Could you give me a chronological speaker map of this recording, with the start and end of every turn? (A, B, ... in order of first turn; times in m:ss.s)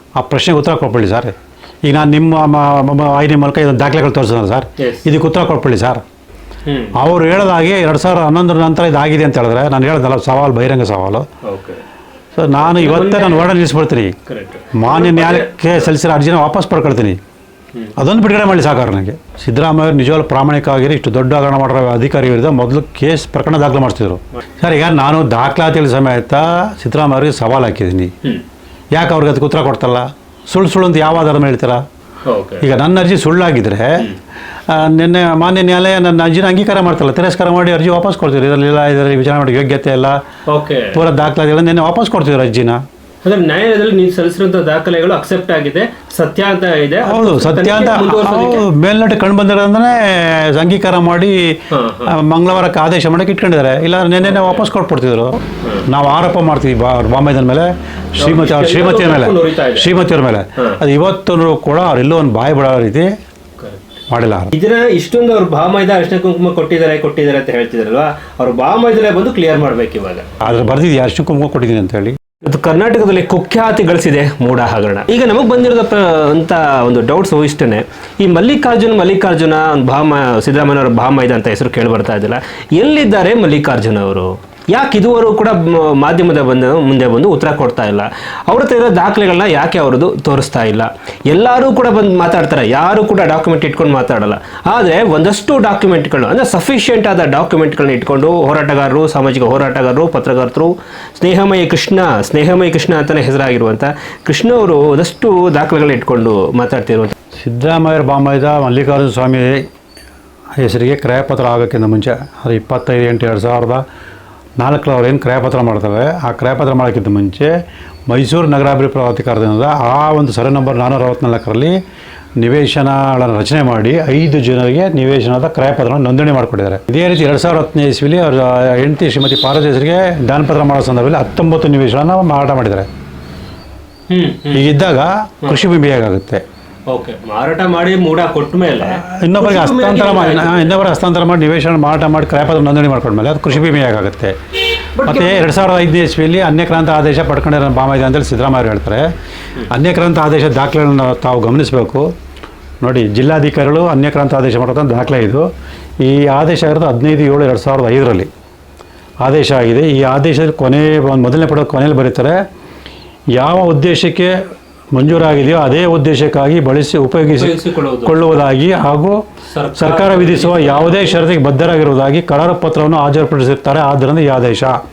0:00.2-0:01.3 A
0:01.8-0:06.0 A
0:04.8-0:05.1 B
0:06.7-0:07.0 B
0:07.0-0:11.3 A
0:11.4-0:11.8 B
0:12.4-0:14.2 A
0:12.6-0:13.5 B
0:14.3-0:15.9 B
0:14.7-0:17.2 A
0:18.0-0:28.1 A
0:29.0-0:31.8 A
0:32.2-0:32.7 B
0:32.6-0:34.1 A
0:34.7-0:40.2 A
0:40.5-0:41.0 B
0:40.9-0:42.8 A
0:43.2-0:48.7 B
0:47.0-1:03.1 A
0:51.7-0:52.2 B
0:54.2-0:54.7 B
0:58.2-1:00.0 B
1:03.6-1:04.0 B
1:04.1-1:04.5 A
1:04.5-1:10.7 B
1:10.4-1:12.2 A
1:12.4-1:47.1 B
1:47.4-1:49.7 A
1:50.6-1:53.8 A
1:54.6-1:57.5 A
1:58.1-2:01.8 A
2:02.4-2:12.9 A
2:14.1-2:14.7 B
2:14.5-2:16.4 A
2:16.9-2:20.9 B
2:18.8-2:24.4 A
2:25.0-2:25.6 B
2:25.0-2:29.1 A
2:29.7-2:32.1 A
2:32.8-2:35.5 A
2:36.0-2:38.3 A
2:39.2-2:42.4 A
2:43.4-2:44.4 A
2:44.9-2:49.2 A
2:47.3-2:48.3 B
2:49.5-2:51.3 B
2:49.8-2:54.8 A